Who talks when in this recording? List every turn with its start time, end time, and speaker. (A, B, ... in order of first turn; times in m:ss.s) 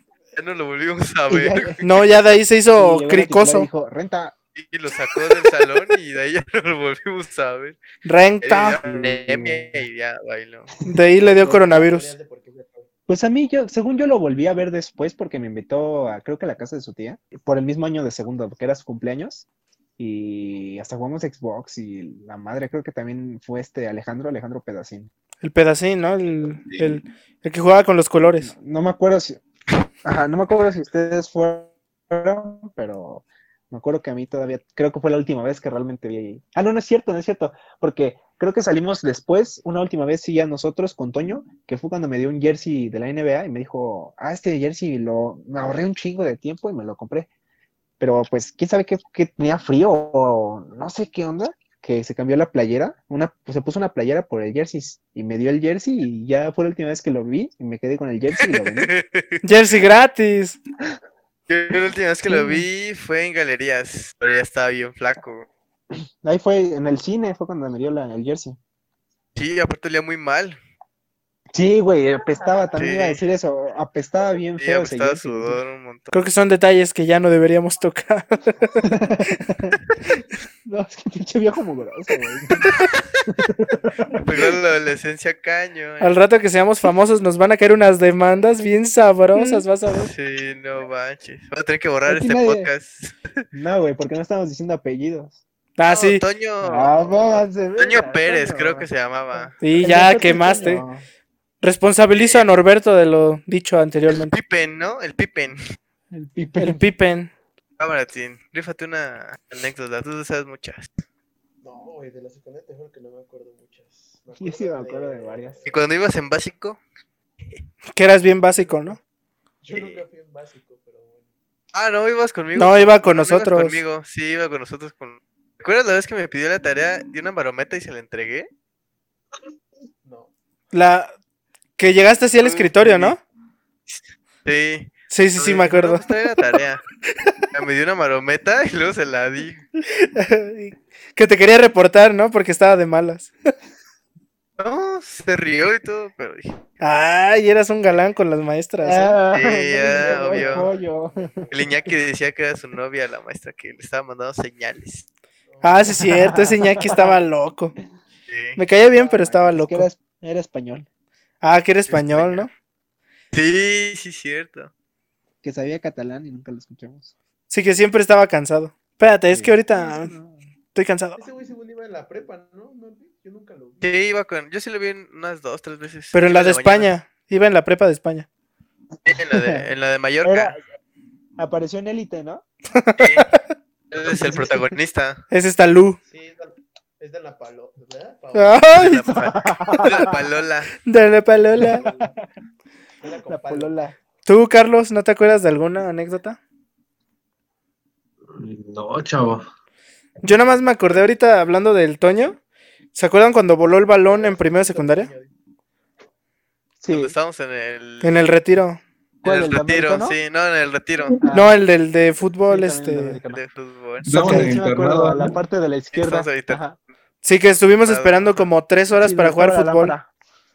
0:00.4-0:01.8 A
0:01.3-0:01.8 B
0:01.8-0:03.7 C
0:02.8-0:04.3 B
0:04.6-0:07.8 A
0:08.0-0:08.8 C
0:08.4-0:10.7 A
0:08.8-0:09.8 B
0:10.9-0:12.1 C
0:10.9-0:11.7 B
0:11.3-0:12.9 D
0:13.1-0:19.5 B
0:20.0-0:25.1 B
0:25.4-0:28.5 C
0:28.4-0:29.4 B
0:30.0-0:47.3 B
0:48.0-0:58.9 B
0:58.4-0:59.4 A
0:59.4-1:00.6 C
1:01.5-1:05.5 A
1:02.3-1:02.6 B
1:06.2-1:08.6 B
1:09.4-1:10.6 A
1:11.6-1:15.6 B
1:12.8-1:13.2 A
1:14.6-1:16.1 A
1:16.1-1:18.9 C
1:18.8-1:19.8 B
1:20.7-1:22.7 B
1:23.3-1:24.5 B
1:24.2-1:26.2 A
1:26.0-1:30.1 C
1:30.0-1:33.3 A
1:32.1-1:32.7 B
1:33.5-1:35.4 B
1:35.8-1:36.2 C
1:35.9-1:36.9 A
1:36.6-1:38.9 B
1:37.8-1:39.6 A
1:39.6-1:40.8 C
1:39.8-1:41.0 B
1:41.6-1:44.4 C
1:42.2-1:42.5 A
1:44.1-1:45.6 A
1:46.1-1:46.9 B
1:46.6-1:47.3 C
1:47.8-1:50.9 A
1:51.6-1:55.7 D
1:54.4-1:55.6 B
1:55.7-1:56.8 A
1:58.0-1:59.0 C
1:58.6-1:59.0 D
1:59.6-2:01.3 D
1:59.7-2:00.0 A
2:01.7-2:08.5 A
2:02.6-2:03.8 C
2:10.0-2:10.3 D
2:10.7-2:11.1 C
2:11.8-2:13.2 C
2:12.4-2:13.2 A
2:13.9-2:16.8 A
2:15.1-2:16.1 C
2:17.5-2:19.6 A
2:20.0-2:23.3 C
2:24.6-2:26.6 A
2:26.8-2:29.2 C
2:28.8-2:31.5 B
2:29.3-2:30.7 A
2:29.7-2:31.8 D
2:31.5-2:35.1 A
2:35.5-2:36.1 D
2:35.6-2:37.8 C
2:35.9-2:37.0 B
2:38.3-2:38.6 A
2:38.6-2:39.9 C
2:38.9-2:40.9 B
2:41.4-2:42.5 C
2:41.9-2:42.5 A
2:43.3-2:44.7 A
2:45.4-2:47.1 B
2:47.5-2:50.1 C
2:49.3-2:50.4 B
2:50.7-2:51.2 C
2:51.2-2:54.0 D
2:53.8-2:56.9 A
2:56.1-2:58.3 C
2:59.1-3:00.6 A
2:59.1-2:59.6 B
3:00.2-3:00.6 B
3:01.4-3:02.4 B
3:02.7-3:03.4 C
3:03.0-3:03.3 A
3:03.9-3:05.2 A
3:04.0-3:04.8 B
3:05.3-3:06.0 C
3:06.0-3:08.9 D
3:08.3-3:09.0 C
3:08.7-3:10.7 A
3:09.0-3:10.3 B
3:10.9-3:11.8 C
3:11.5-3:12.2 D
3:11.6-3:12.1 B
3:13.0-3:13.8 D
3:13.3-3:14.0 B
3:14.3-3:16.4 C
3:18.3-3:19.5 E
3:20.2-3:22.4 C
3:22.9-3:25.1 C
3:24.0-3:25.3 D
3:26.8-3:27.1 B
3:26.9-3:28.2 A
3:28.0-3:28.8 C
3:29.2-3:30.2 B
3:29.2-3:31.2 A
3:31.2-3:31.6 B
3:31.3-3:33.2 C
3:32.5-3:33.4 B
3:33.3-3:34.1 A
3:34.0-3:35.4 E
3:34.1-3:34.5 C
3:34.2-3:36.8 B
3:35.9-3:36.8 A
3:37.2-3:40.0 C
3:37.9-3:38.5 A
3:38.9-3:40.1 B